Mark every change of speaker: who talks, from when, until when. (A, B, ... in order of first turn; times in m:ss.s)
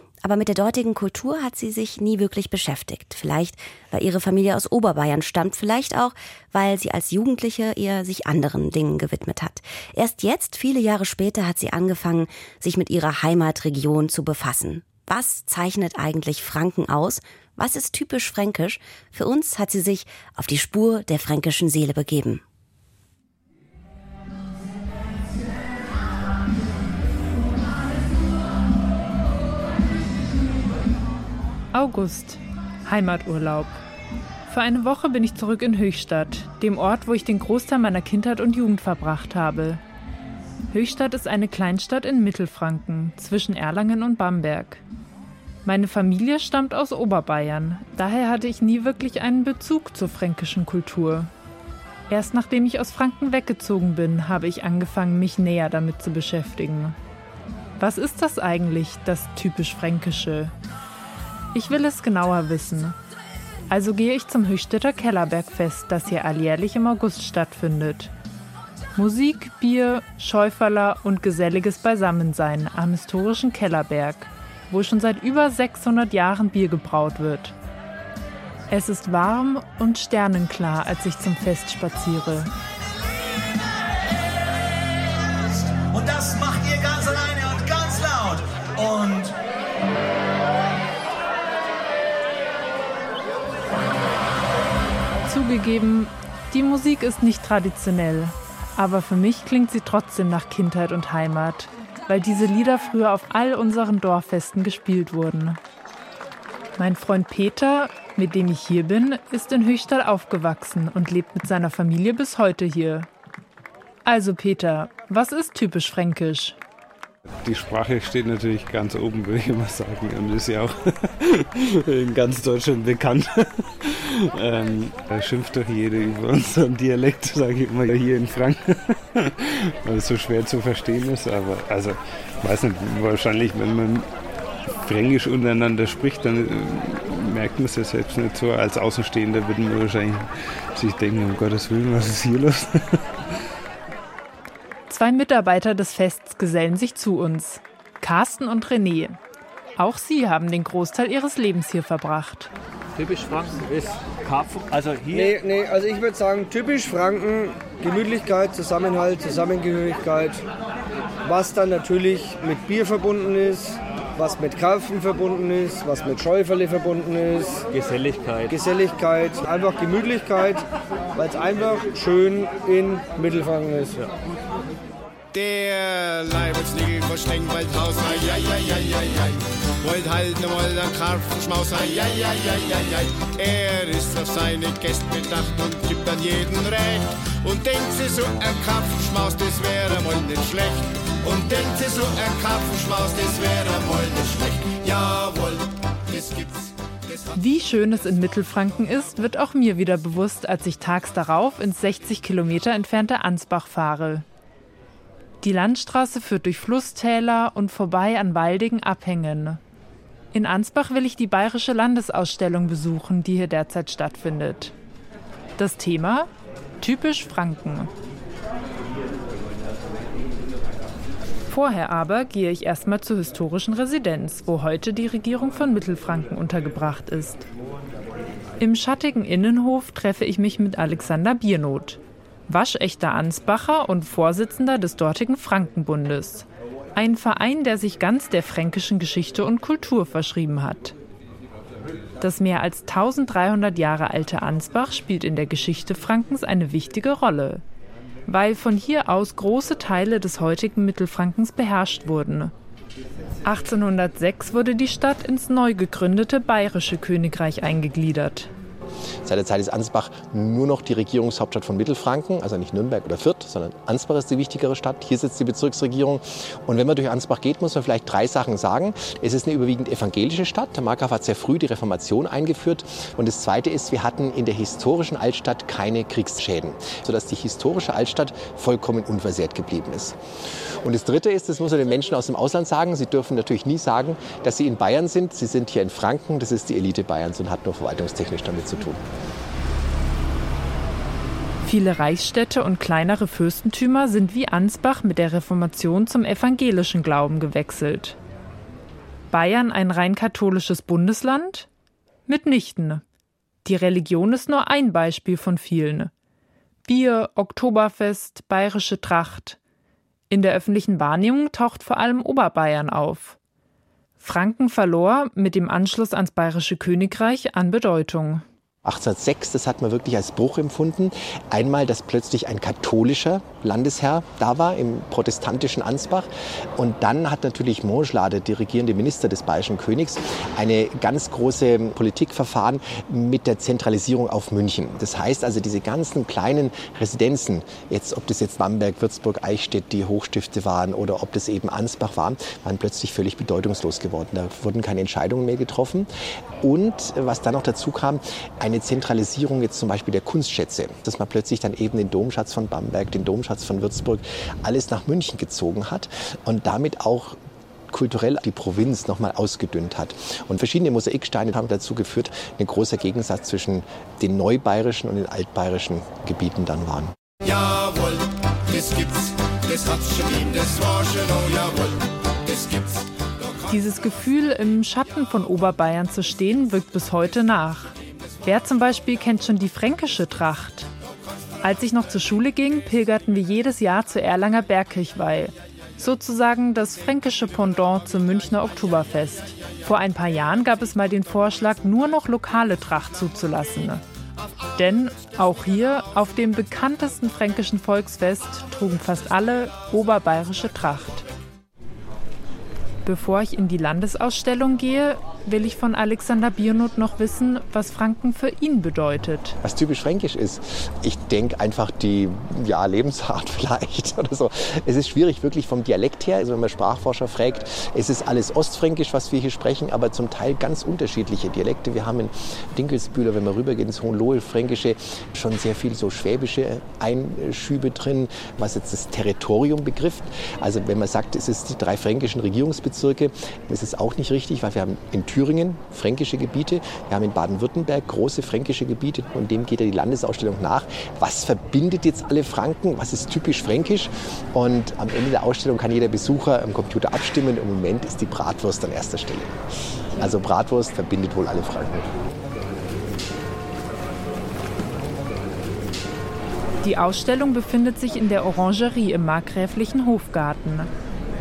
0:00.2-0:22.4 A
0:31.7-0:33.8 B
0:34.5-0:39.8 B
0:40.7-0:44.8 B
0:45.6-0:51.3 B
0:52.1-0:57.0 B
0:57.8-1:00.5 B
1:01.5-1:03.0 B
1:03.7-1:08.1 B
1:09.0-1:17.5 B
1:18.7-1:22.5 B
1:25.2-1:29.3 C
1:35.2-1:45.6 B
1:46.8-1:53.1 B
1:54.0-1:56.6 B
1:57.4-2:14.1 D
2:14.8-2:20.2 D
2:20.8-2:23.0 D
2:24.9-2:29.2 B
2:29.8-2:32.5 B
2:33.0-2:35.3 E
2:35.1-2:40.4 F
2:41.2-2:47.6 F
2:47.7-2:48.5 E
2:48.5-2:50.6 F
2:51.1-2:54.1 F
2:55.3-3:17.2 G
3:17.4-3:24.2 B
3:25.4-3:29.6 B
3:30.3-3:34.7 B
3:35.6-3:36.3 B
3:36.8-3:37.9 B
3:41.5-3:47.4 B
3:48.6-4:00.9 B
4:02.2-4:07.6 B
4:08.3-4:12.5 B
4:13.4-4:18.5 B
4:19.2-4:40.2 H
4:40.8-4:49.0 H
4:51.6-4:58.2 B
4:59.3-5:01.7 B
5:02.3-5:03.0 B
5:03.6-5:06.1 B
5:06.9-5:09.6 B
5:10.3-5:13.4 B
5:14.2-5:18.4 B
5:18.8-5:46.1 H
5:46.6-5:57.4 H
5:57.9-6:07.1 H
6:07.4-6:13.0 G
6:13.7-6:17.9 B
6:18.4-6:20.9 B
6:21.6-6:34.0 B
6:34.8-6:41.2 B
6:43.0-6:49.6 B
6:49.6-7:29.5 H
7:30.2-7:32.1 H
7:36.8-7:40.9 B